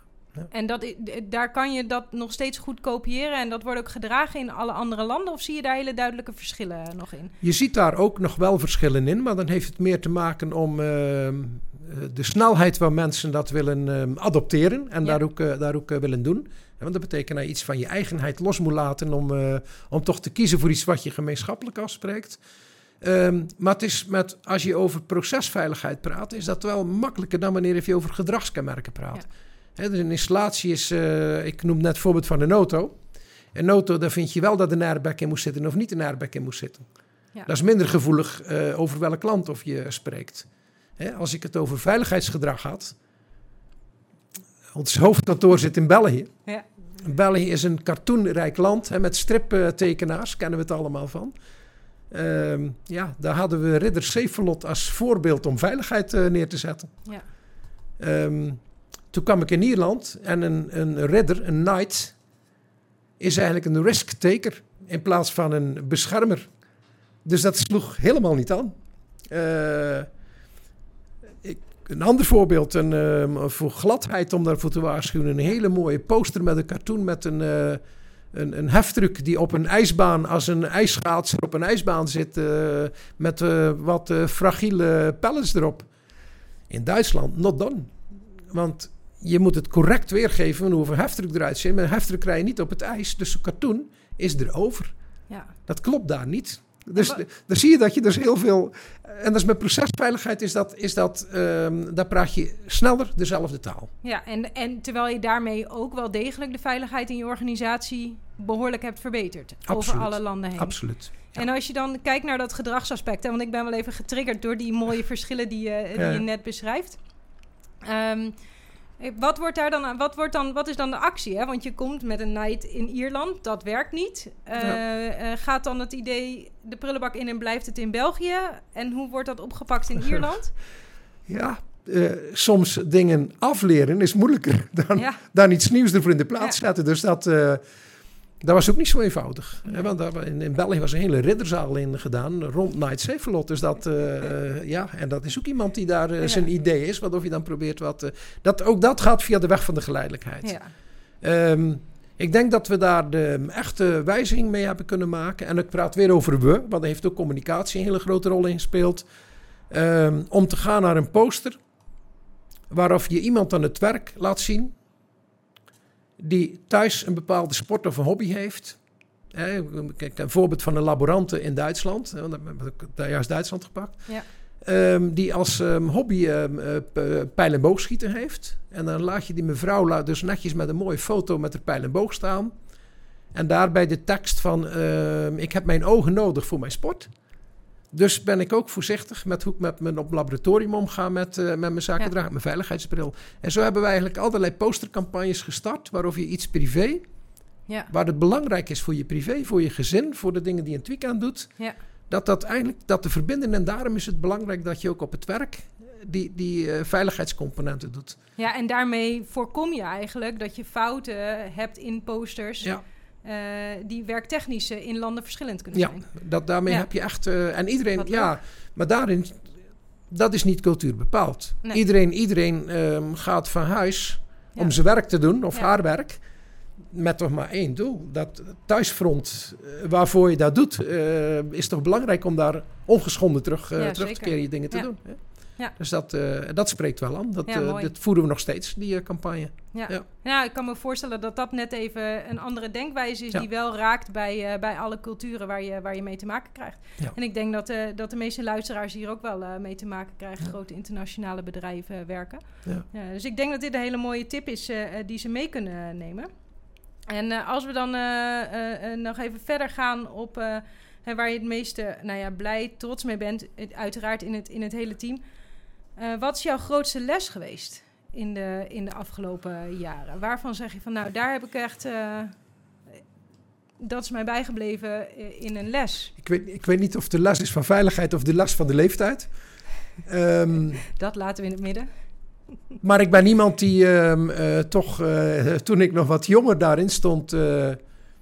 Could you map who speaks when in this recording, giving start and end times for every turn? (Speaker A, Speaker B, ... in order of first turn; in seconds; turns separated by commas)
Speaker A: 0.5-7.3, Speaker B: 7.4-22.4, Speaker B: 23.0-29.2, Speaker B: 29.8-33.0, Speaker B: 33.5-36.9, Speaker B: 37.5-42.9, Speaker B: 44.7-46.3, Speaker B: 47.0-51.3, Speaker B: 52.1-56.9, Speaker B: 58.0-58.6, Speaker B: 59.1-62.1, Speaker B: 63.2-66.5, Speaker B: 67.2-68.7, Speaker B: 69.3-70.1, Speaker B: 71.4-77.8, Speaker B: 78.3-85.9, Speaker B: 86.7-94.9, Speaker A: 95.3-95.5, Speaker B: 95.7-103.9, Speaker A: 104.0-110.8, Speaker B: 109.7-111.4, Speaker A: 111.3-117.0, Speaker B: 116.0-116.2, Speaker A: 117.8-118.3, Speaker A: 119.0-130.5, Speaker B: 131.3-137.6, Speaker A: 134.9-135.2, Speaker B: 138.4-150.5, Speaker A: 146.2-146.5, Speaker A: 150.4-150.7, Speaker B: 151.2-159.1, Speaker B: 159.7-161.6, Speaker B: 162.7-164.7, Speaker B: 166.2-168.8, Speaker B: 169.3-174.1, Speaker B: 174.6-182.5, Speaker B: 183.3-187.1, Speaker B: 187.9-197.0, Speaker B: 197.9-201.5, Speaker B: 202.1-208.2, Speaker A: 208.4-212.7, Speaker A: 213.2-216.1, Speaker B: 215.7-219.4, Speaker A: 218.0-218.3, Speaker B: 220.1-226.2, Speaker B: 226.8-235.2, Speaker A: 233.8-234.9, Speaker B: 235.7-240.0, Speaker A: 237.5-237.9, Speaker A: 239.7-256.3, Speaker A: 257.1-265.2, Speaker A: 265.9-272.4, Speaker A: 273.8-276.1, Speaker B: 276.2-279.3, Speaker B: 280.0-280.8, Speaker A: 280.9-281.9, Speaker B: 282.8-287.8